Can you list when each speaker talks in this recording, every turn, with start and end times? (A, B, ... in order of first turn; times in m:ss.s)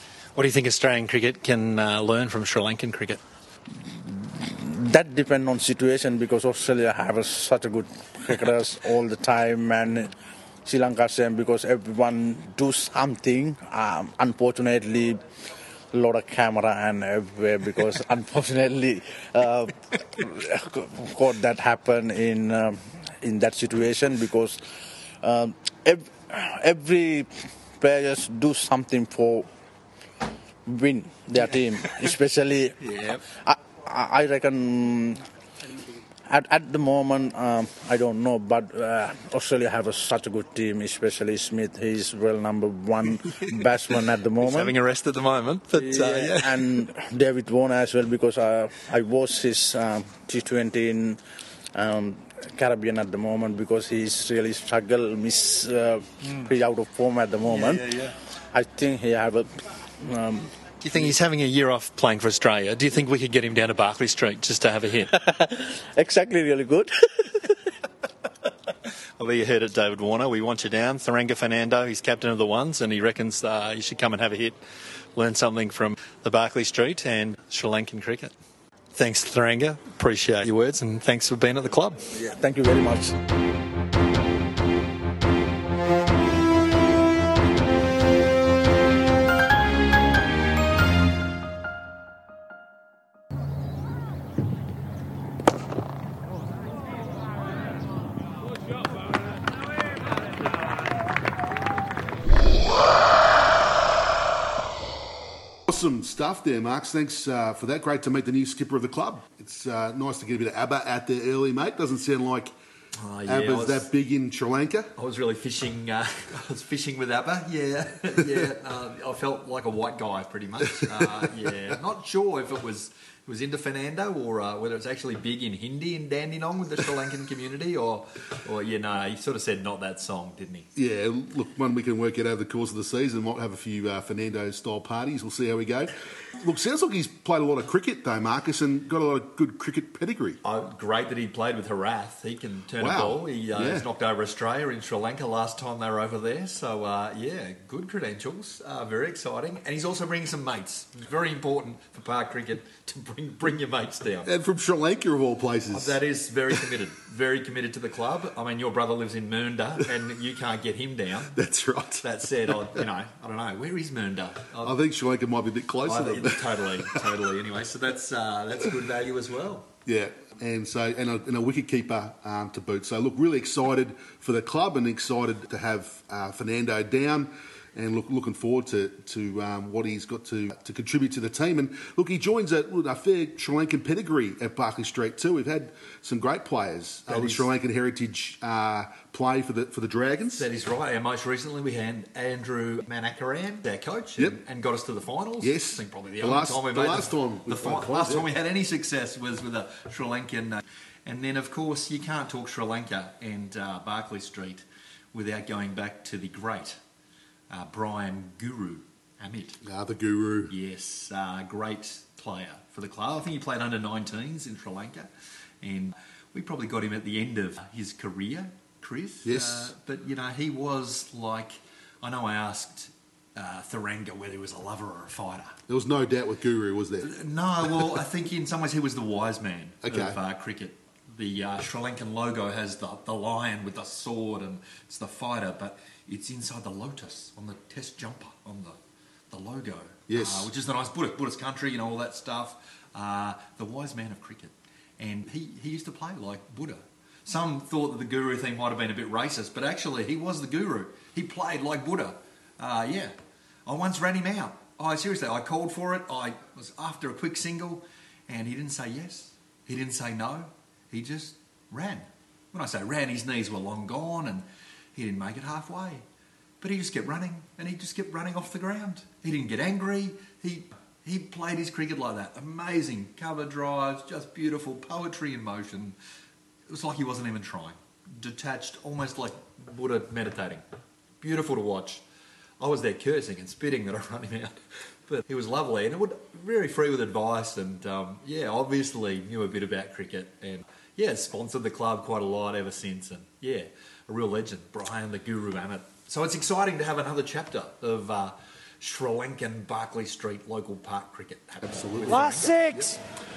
0:00.4-0:03.2 A
0:04.0-0:10.1 B
0:10.6-0:15.2 B
0:15.9-0:24.6 B
0:25.2-0:29.5 B
0:30.6-0:32.7 B
0:32.8-0:33.2 A
0:33.3-0:35.2 B
0:36.3-0:44.7 B
0:44.4-0:46.6 A
0:45.7-0:51.2 B
0:51.7-0:58.0 B
0:56.2-0:56.5 A
0:57.5-0:58.1 A
0:58.5-1:01.1 B
1:00.8-1:05.1 A
1:05.1-1:07.5 B
1:09.2-1:14.6 A
1:15.2-1:18.3 A
1:18.9-1:22.0 A
1:22.1-1:23.2 B
1:45.7-1:52.5 C
1:53.0-1:53.9 A
1:53.2-1:54.9 C
1:55.0-2:10.7 A
2:00.8-2:01.8 C
2:10.7-2:20.4 C
2:20.4-2:34.3 A
2:22.8-2:23.9 C
2:34.2-2:36.0 C
2:35.7-2:41.4 A
2:41.3-2:42.8 C
2:42.0-2:44.8 A
2:44.6-2:47.0 C
2:45.8-2:49.7 A
2:49.8-3:10.5 C
3:07.1-3:07.5 A
3:10.4-3:26.8 A
3:15.4-3:18.3 C
3:27.5-3:29.6 A
3:29.6-3:30.6 C
3:30.5-3:35.1 A
3:35.6-3:45.6 A
3:39.2-3:39.7 C
3:45.7-3:47.9 C
3:47.0-3:58.8 A
3:49.8-3:50.2 C
3:59.3-4:13.1 A
4:00.1-4:00.5 C
4:13.6-4:26.0 A
4:26.6-4:36.0 A
4:36.7-4:40.6 A
4:41.2-4:42.0 A
4:42.6-4:44.5 A
4:45.1-5:02.6 A
5:01.6-5:03.0 C